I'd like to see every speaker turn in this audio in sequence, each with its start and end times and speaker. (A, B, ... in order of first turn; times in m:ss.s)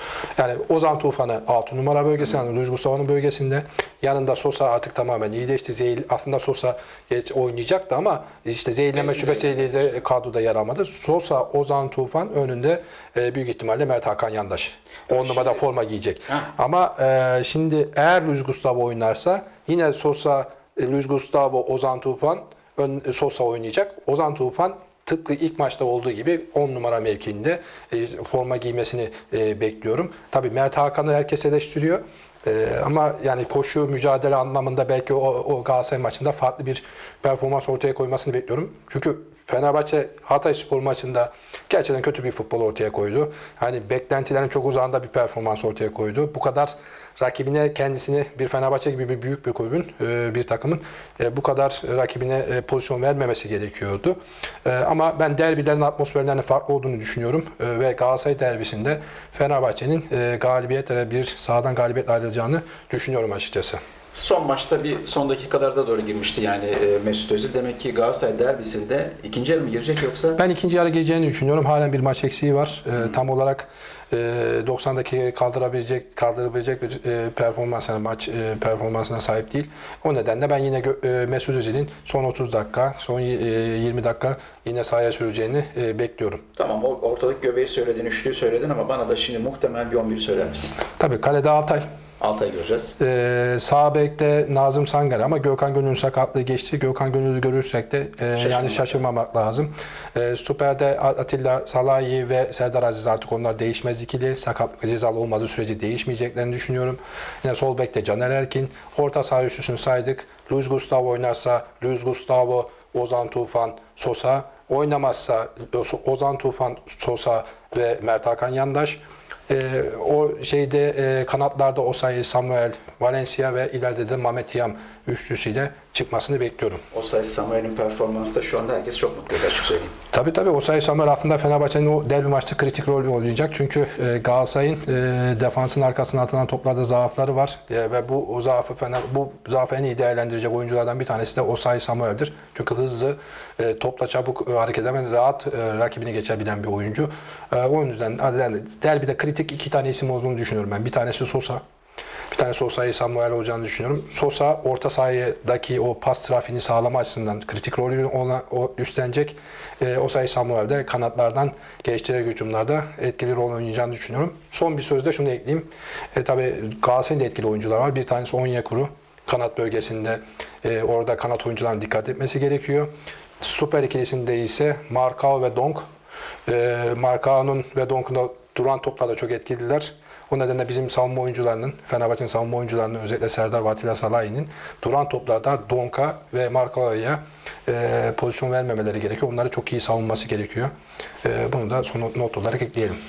0:00.4-1:03.8 A
0:08.9-0:10.0 B
0:15.2-0:15.6 B
1:04.2-1:10.4 B
1:10.4-1:26.4 A
1:26.6-1:30.8 B
1:31.0-1:31.8 A
1:32.2-1:33.0 B
1:33.0-2:06.8 A
1:38.4-1:39.0 B
2:06.9-2:10.0 B
2:10.1-2:31.6 A
2:32.3-2:52.9 A
2:53.4-2:55.8 A
2:56.5-3:10.7 A
3:11.2-3:13.0 A